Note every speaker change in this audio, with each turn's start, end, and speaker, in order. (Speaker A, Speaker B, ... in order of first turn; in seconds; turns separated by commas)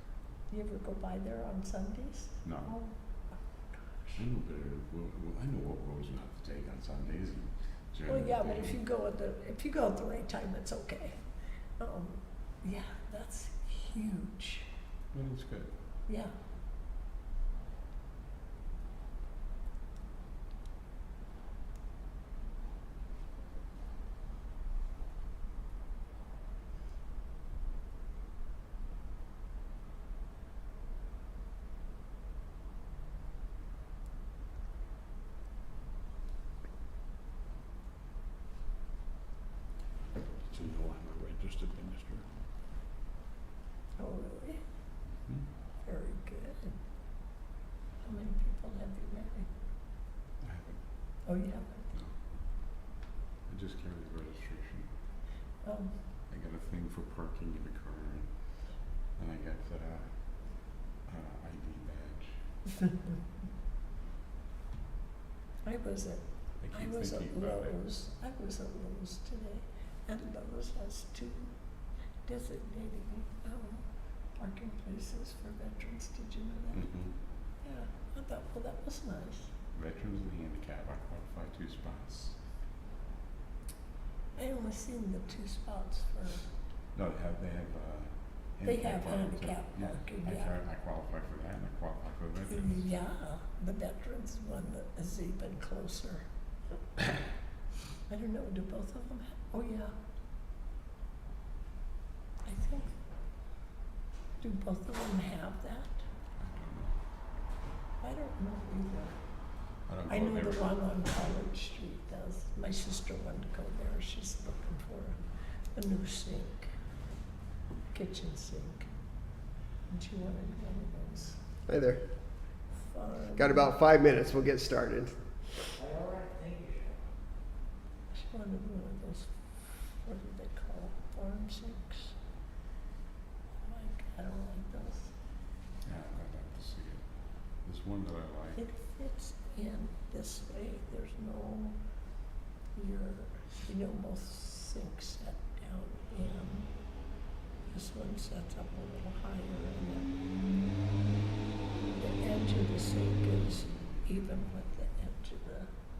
Speaker A: 0.5-2.9, Speaker B: 2.4-2.8, Speaker B: 4.2-8.8, Speaker A: 8.1-11.2, Speaker A: 11.8-14.7, Speaker B: 15.1-15.7, Speaker A: 16.1-16.3, Speaker B: 40.5-42.2, Speaker A: 44.0-44.6, Speaker A: 45.8-46.8, Speaker A: 48.0-49.5, Speaker B: 50.4-50.9, Speaker A: 51.2-51.9, Speaker B: 51.9-52.6, Speaker B: 53.5-54.9, Speaker A: 55.6-56.0, Speaker B: 56.2-62.5, Speaker A: 65.6-71.5, Speaker B: 66.6-67.8, Speaker A: 72.2-73.8, Speaker A: 74.3-76.8, Speaker B: 76.7-77.1, Speaker A: 77.6-79.5, Speaker B: 79.7-82.4, Speaker A: 84.3-86.5, Speaker B: 86.9-92.9, Speaker A: 88.6-90.6, Speaker A: 92.5-96.2, Speaker A: 98.1-99.9, Speaker A: 102.4-102.9, Speaker A: 104.4-106.0, Speaker B: 106.4-107.0, Speaker A: 108.0-109.2, Speaker B: 109.8-110.8, Speaker A: 110.1-116.8, Speaker A: 117.9-118.9, Speaker A: 119.9-121.4, Speaker C: 121.7-122.3, Speaker A: 122.8-123.7, Speaker C: 123.3-125.8, Speaker A: 128.1-132.2, Speaker A: 133.6-135.1, Speaker B: 135.8-138.6, Speaker A: 138.6-141.8, Speaker A: 142.7-147.2, Speaker A: 147.7-150.1, Speaker A: 151.8-155.7